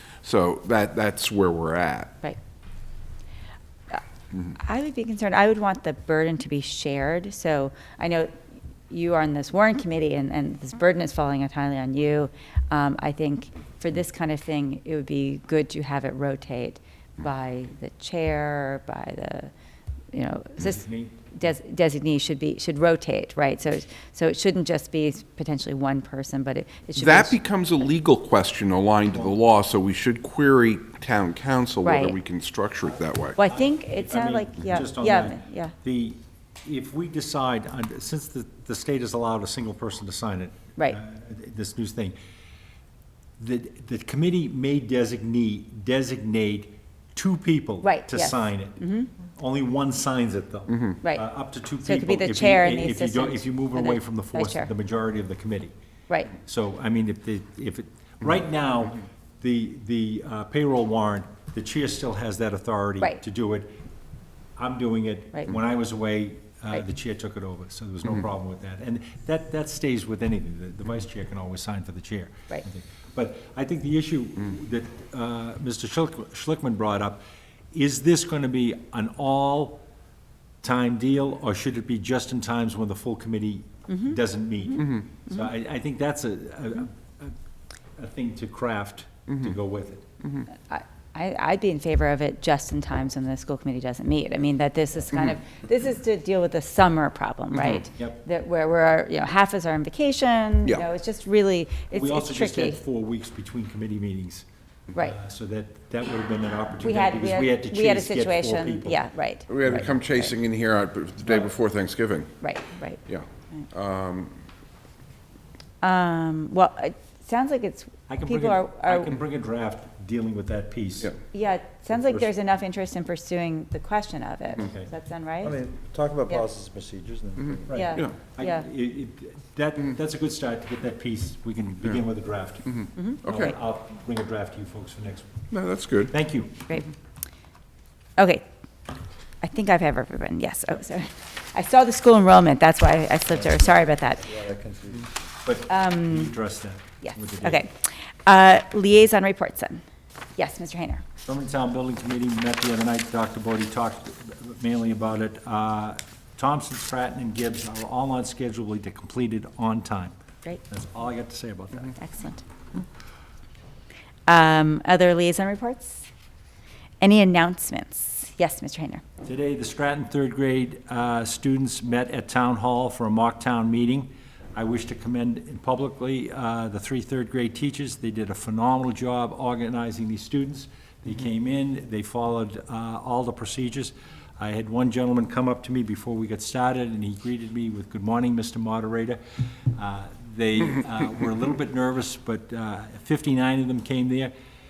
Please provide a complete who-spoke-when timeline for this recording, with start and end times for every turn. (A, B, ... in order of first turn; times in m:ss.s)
0:00.2-0:02.1 A
0:04.6-0:08.3 B
0:08.9-0:19.5 B
0:20.1-0:27.4 B
0:20.6-0:21.2 C
0:27.0-0:33.4 A
0:31.8-0:32.2 B
0:33.4-0:35.7 B
0:33.4-0:42.2 C
0:43.4-0:55.7 C
0:47.8-0:49.1 B
0:51.8-0:54.7 B
0:56.1-0:56.3 B
0:56.4-1:03.7 C
1:04.6-1:19.8 C
1:20.6-1:27.3 C
1:28.0-1:30.1 C
1:30.5-1:42.8 B
1:41.9-1:49.0 C
1:46.8-1:50.3 B
1:49.5-1:52.3 A
1:52.4-1:53.0 B
1:53.1-1:54.3 A
1:55.8-1:59.1 B
1:58.1-2:01.2 C
2:01.3-2:05.6 B
2:04.6-2:04.9 C
2:05.4-2:07.8 D
2:07.7-2:15.3 C
2:07.7-2:08.6 B
2:12.9-2:13.3 B
2:13.2-2:13.5 A
2:15.5-2:16.1 A
2:16.1-2:16.7 C
2:18.2-2:18.4 B
2:19.4-2:24.4 B
2:24.2-2:25.2 D
2:25.4-2:27.6 C
2:25.7-2:26.3 B
2:27.0-2:29.8 B
2:30.4-2:31.0 B
2:31.2-2:40.1 C
2:40.7-2:42.0 C
2:42.0-2:42.4 B
2:44.3-2:46.1 B
2:47.0-2:49.0 B
2:49.2-3:09.2 C
3:09.7-3:14.3 C